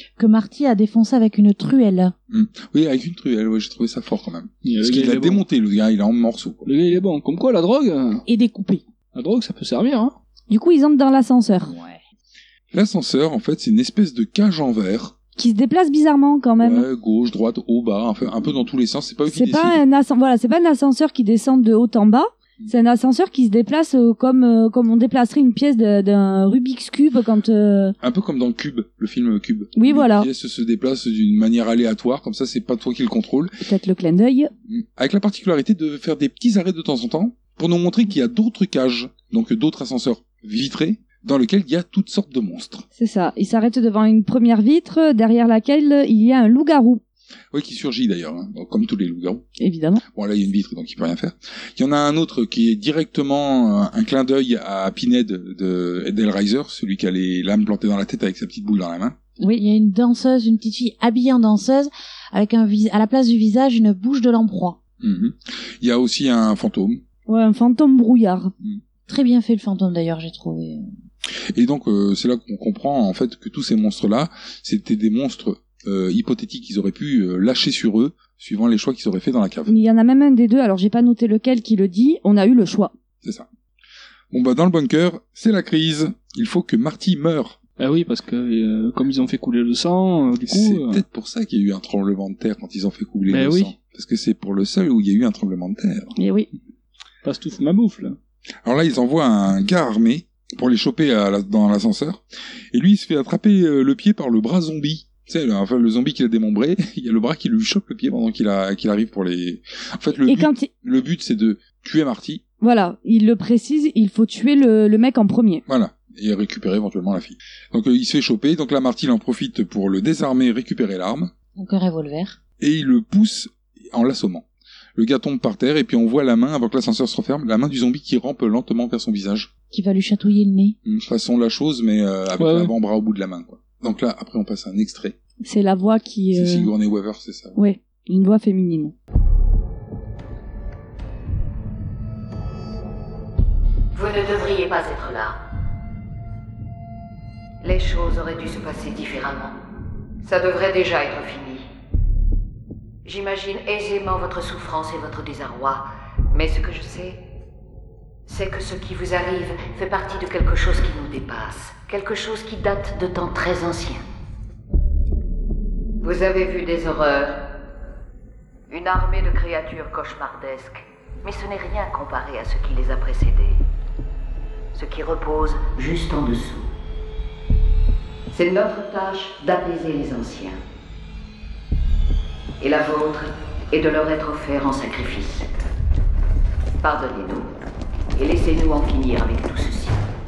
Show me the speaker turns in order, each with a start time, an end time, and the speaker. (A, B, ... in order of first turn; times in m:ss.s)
0:00.2-0:02.1 A
0:02.3-0:06.7 B
0:04.6-0:05.4 C
0:06.6-0:08.2 C
0:08.3-0:08.8 A
0:09.1-0:10.2 C
0:10.5-0:11.7 D
0:12.7-0:15.2 B
0:15.4-0:16.9 D
0:16.6-0:19.8 B
0:19.3-0:28.0 D
0:28.0-0:33.5 B
0:29.8-0:30.3 D
0:33.6-0:34.5 D
0:34.7-0:42.8 B
0:43.0-0:47.0 D
0:47.5-0:49.5 B
0:49.6-0:50.0 D
0:50.1-0:59.2 B
0:59.4-1:04.8 A
1:05.0-1:07.0 B
1:07.3-1:08.5 D
1:09.1-1:10.8 A
1:11.5-1:19.7 B
1:19.7-1:22.9 D
1:24.3-1:27.6 B
1:27.8-1:31.0 C
1:30.5-1:36.2 B
1:33.3-1:33.7 C
1:36.2-1:36.5 D
1:37.2-1:38.2 C
1:38.6-1:52.4 B
1:50.3-1:50.7 D
1:52.6-1:55.6 D
1:55.7-2:01.3 B
2:01.6-2:02.4 A
2:02.6-2:04.4 B
2:05.0-2:09.5 B
2:09.7-2:10.8 A
2:10.8-2:15.2 B
2:12.4-2:12.7 C
2:15.4-2:16.7 D
2:16.3-2:17.6 B
2:17.6-2:19.0 D
2:23.9-2:25.4 E
2:27.6-2:29.6 E
2:30.2-2:31.7 E
2:33.0-2:37.2 E
2:38.3-2:44.0 E
2:46.0-2:47.4 E
2:48.7-2:53.6 E
2:54.7-2:56.7 E
2:58.3-3:00.6 E
3:02.6-3:05.5 E
3:06.8-3:07.5 E
3:08.2-3:10.0 E